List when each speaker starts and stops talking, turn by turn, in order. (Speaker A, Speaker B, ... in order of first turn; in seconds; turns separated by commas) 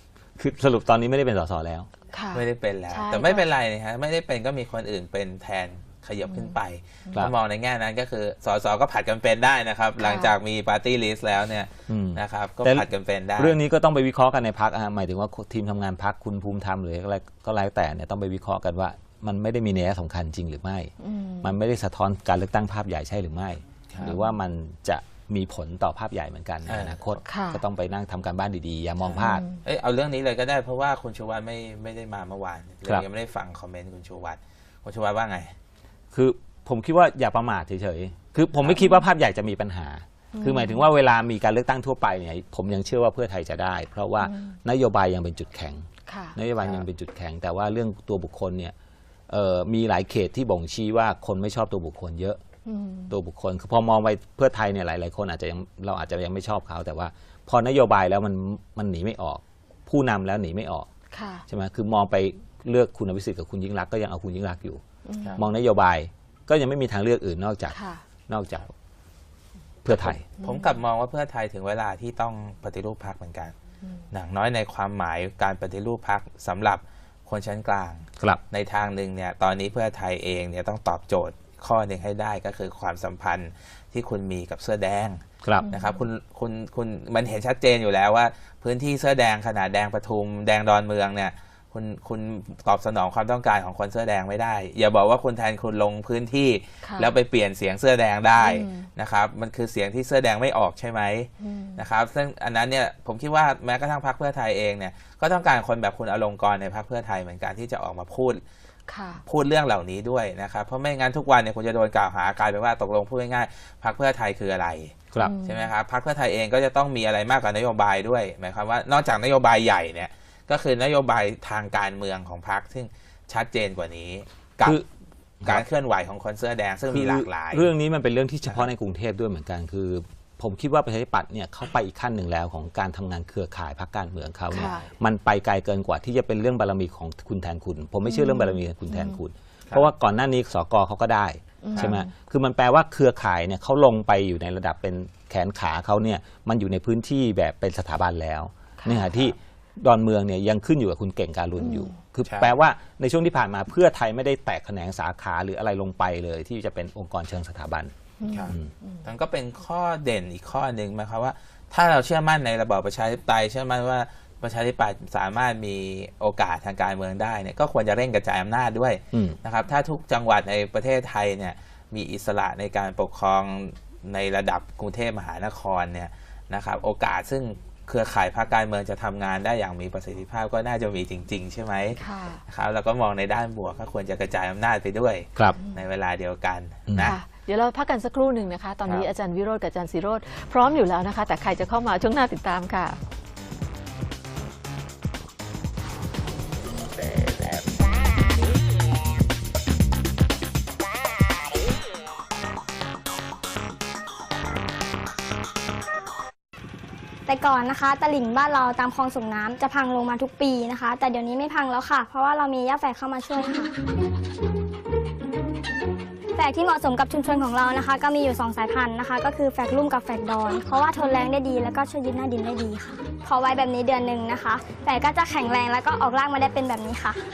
Speaker A: 0.4-1.9, Speaker B: 2.1-3.5, Speaker C: 2.3-13.6, Speaker B: 10.0-10.3, Speaker A: 11.9-20.9, Speaker B: 21.0-21.5, Speaker A: 21.4-29.4, Speaker C: 23.9-24.2, Speaker C: 26.7-27.2, Speaker B: 27.3-27.6, Speaker C: 29.0-35.5, Speaker B: 29.2-29.6, Speaker A: 36.1-48.7, Speaker C: 38.6-38.8, Speaker B: 40.3-40.9, Speaker B: 44.2-44.6, Speaker B: 46.1-46.4, Speaker C: 46.6-46.9, Speaker A: 49.3-52.4, Speaker B: 52.7-53.1, Speaker A: 53.1-60.9, Speaker B: 61.1-61.5, Speaker A: 61.5-64.8, Speaker B: 65.1-65.5, Speaker A: 65.4-67.8, Speaker B: 67.7-68.0, Speaker A: 68.3-68.7, Speaker A: 69.8-70.2, Speaker C: 69.9-73.5, Speaker B: 70.4-70.7, Speaker C: 74.1-108.4, Speaker A: 85.4-85.7, Speaker B: 85.6-86.0, Speaker B: 96.8-97.1, Speaker B: 98.4-98.9, Speaker B: 101.4-101.8, Speaker B: 108.9-109.2, Speaker C: 109.2-124.8, Speaker B: 115.2-115.7, Speaker C: 125.4-127.7, Speaker A: 126.9-157.9, Speaker B: 134.5-134.9, Speaker C: 134.5-134.9, Speaker B: 138.1-139.2, Speaker B: 141.6-142.1, Speaker B: 148.8-149.2, Speaker B: 151.6-151.9, Speaker C: 152.2-152.5, Speaker B: 158.2-159.1, Speaker C: 158.3-187.2, Speaker B: 182.0-182.4, Speaker A: 186.9-187.2, Speaker B: 187.0-193.0, Speaker C: 188.8-189.1, Speaker D: 207.3-213.7, Speaker D: 216.4-227.2